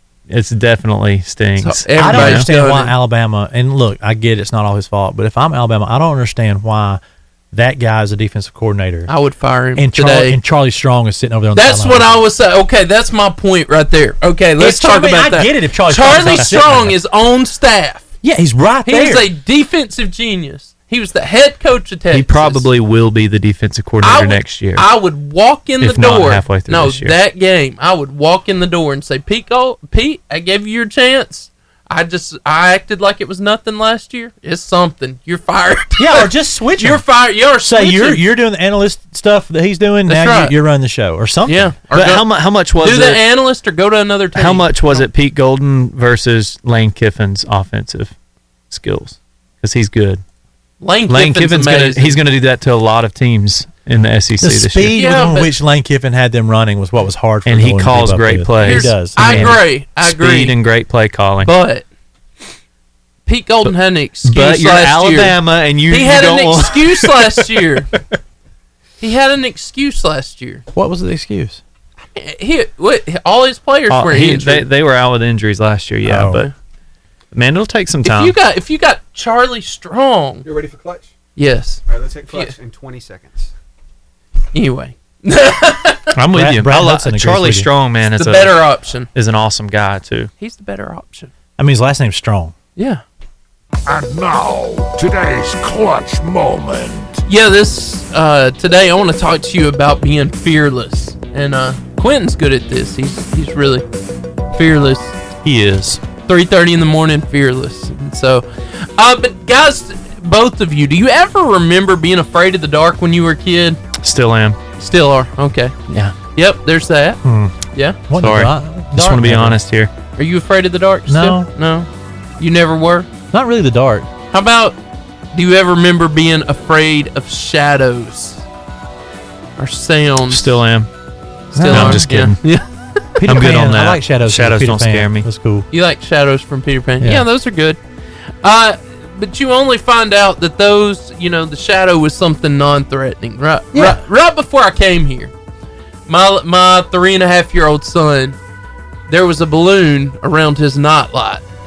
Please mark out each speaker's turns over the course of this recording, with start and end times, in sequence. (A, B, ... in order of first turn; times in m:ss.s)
0:00.3-0:02.5 A
0:01.6-0:03.0 B
0:02.0-0:07.0 C
0:07.5-0:09.1 C
0:09.1-0:10.4 B
0:09.8-0:12.2 C
0:11.6-0:18.1 B
0:14.6-0:16.9 C
0:18.2-0:19.3 C
0:18.8-0:22.7 B
0:22.1-0:24.9 A
0:24.0-0:38.2 B
0:25.8-0:27.2 A
0:36.0-0:37.0 C
0:37.6-0:41.8 C
0:40.1-0:40.6 B
0:41.5-0:42.3 B
0:41.9-0:43.2 A
0:42.8-0:45.1 B
0:44.4-0:48.1 A
0:48.7-0:50.2 A
0:50.8-0:52.2 B
0:51.1-0:55.0 A
0:54.4-0:59.6 C
0:55.0-0:55.6 B
0:57.5-1:01.5 A
0:58.6-1:00.6 B
1:01.4-1:01.8 B
1:03.3-1:05.4 B
1:03.6-1:07.4 A
1:05.9-1:07.9 B
1:09.0-1:10.6 B
1:10.8-1:11.6 C
1:12.2-1:14.7 B
1:13.9-1:16.5 A
1:16.0-1:16.4 C
1:17.3-1:18.4 A
1:18.0-1:20.4 B
1:20.4-1:21.1 D
1:21.4-1:22.5 B
1:21.9-1:23.5 D
1:24.5-1:26.1 B
1:26.2-1:30.3 A
1:26.3-1:27.7 C
1:28.1-1:29.1 B
1:30.4-1:31.3 B
1:31.6-1:32.5 C
1:32.8-1:33.0 B
1:33.9-1:37.2 E
1:37.3-1:43.8 B
1:44.5-1:45.2 B
1:45.4-1:46.0 A
1:46.3-1:53.8 B
1:54.0-1:54.6 A
1:54.8-1:55.7 B
1:55.9-1:56.1 A
1:56.4-1:57.2 B
1:57.2-1:59.6 C
1:58.2-1:59.9 A
2:00.2-2:03.1 B
2:01.1-2:01.5 C
2:03.3-2:04.1 C
2:04.3-2:04.8 B
2:05.3-2:08.4 B
2:09.6-2:10.5 B
2:10.3-2:10.9 A
2:11.5-2:12.6 B
2:11.6-2:12.1 C
2:11.7-2:12.4 A
2:13.2-2:15.7 C
2:13.2-2:15.3 A
2:15.7-2:17.8 B
2:17.0-2:17.3 C
2:18.4-2:25.3 B
2:23.7-2:24.0 C
2:26.1-2:28.4 B
2:29.1-2:31.4 B